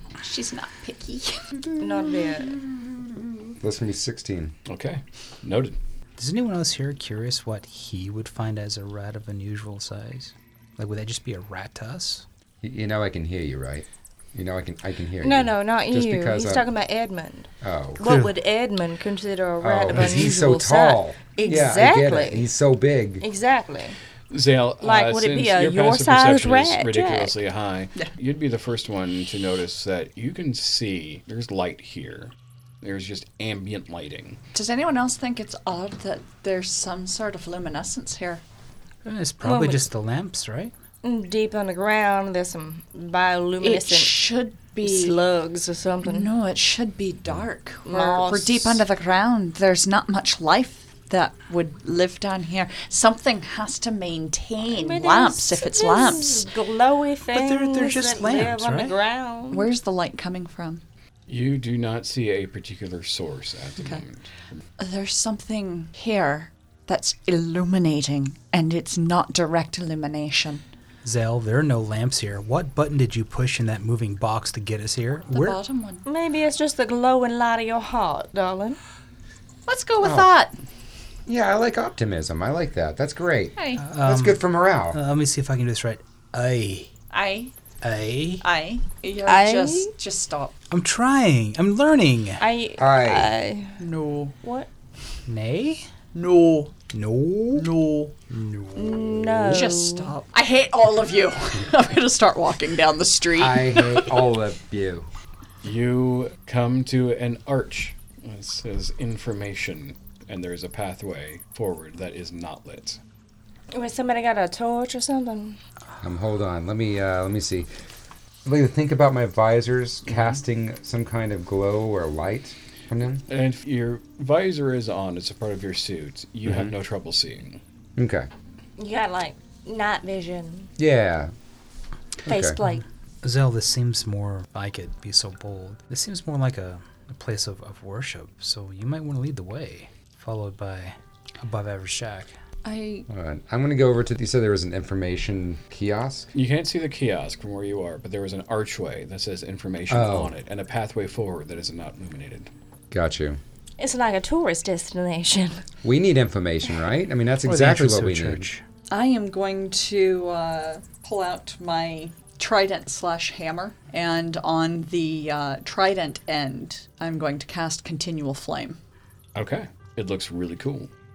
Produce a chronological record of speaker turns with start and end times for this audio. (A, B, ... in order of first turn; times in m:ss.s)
0:00.2-0:01.5 A
0:01.8-0:02.6 B
0:03.6-0:04.5 C
0:04.7-0:05.8 D
0:06.2-0:12.2 E
0:12.6-0:16.7 C
0:15.2-0:22.4 B
0:17.6-0:18.0 C
0:18.0-0:18.3 E
0:19.6-0:23.2 C
0:19.9-0:20.6 E
0:23.2-0:24.0 B
0:24.3-0:34.4 D
0:24.8-0:27.3 B
0:34.5-0:38.4 A
0:39.0-0:40.7 E
0:39.4-0:39.8 B
0:41.0-0:44.2 B
0:43.6-0:45.2 A
0:44.8-0:46.3 B
0:46.0-0:56.5 A
0:47.9-0:48.8 B
0:54.7-0:59.7 B
0:57.3-0:59.0 E
0:59.5-1:00.8 A
1:01.3-1:04.3 D
1:04.8-1:10.6 A
1:11.0-1:15.6 E
1:15.3-1:16.1 A
1:16.0-1:18.8 B
1:19.7-1:20.5 A
1:20.0-1:20.3 C
1:21.3-1:25.0 C
1:23.6-1:23.8 A
1:23.8-1:26.9 E
1:27.1-1:27.5 A
1:27.8-1:28.4 E
1:28.4-1:30.5 A
1:29.2-1:29.9 B
1:30.7-1:32.4 E
1:32.4-1:33.8 B
1:32.8-1:33.3 C
1:33.8-1:34.4 A
1:34.4-1:34.7 B
1:35.3-1:35.9 E
1:36.1-1:36.7 A
1:36.9-1:37.7 E
1:37.5-1:38.2 A
1:38.3-1:39.4 E
1:38.8-1:40.1 B
1:39.5-1:44.2 A
1:43.4-1:45.1 C
1:45.6-1:53.0 D
1:53.7-1:55.6 B
1:56.0-1:57.7 C
1:58.4-2:03.2 C
2:00.1-2:00.4 D
2:03.3-2:07.6 D
2:06.5-2:06.7 C
2:08.0-2:08.3 C
2:08.8-2:10.7 B
2:10.8-2:11.3 C
2:12.2-2:12.6 C
2:12.3-2:12.8 B
2:13.2-2:22.3 E
2:22.6-2:23.1 A
2:23.1-2:26.3 C
2:26.3-2:32.5 D
2:29.9-2:30.3 C
2:32.9-2:33.4 C
2:33.8-2:35.6 B
2:35.8-2:38.5 C
2:37.4-2:38.6 E
2:38.9-2:48.8 A
2:49.4-2:50.9 D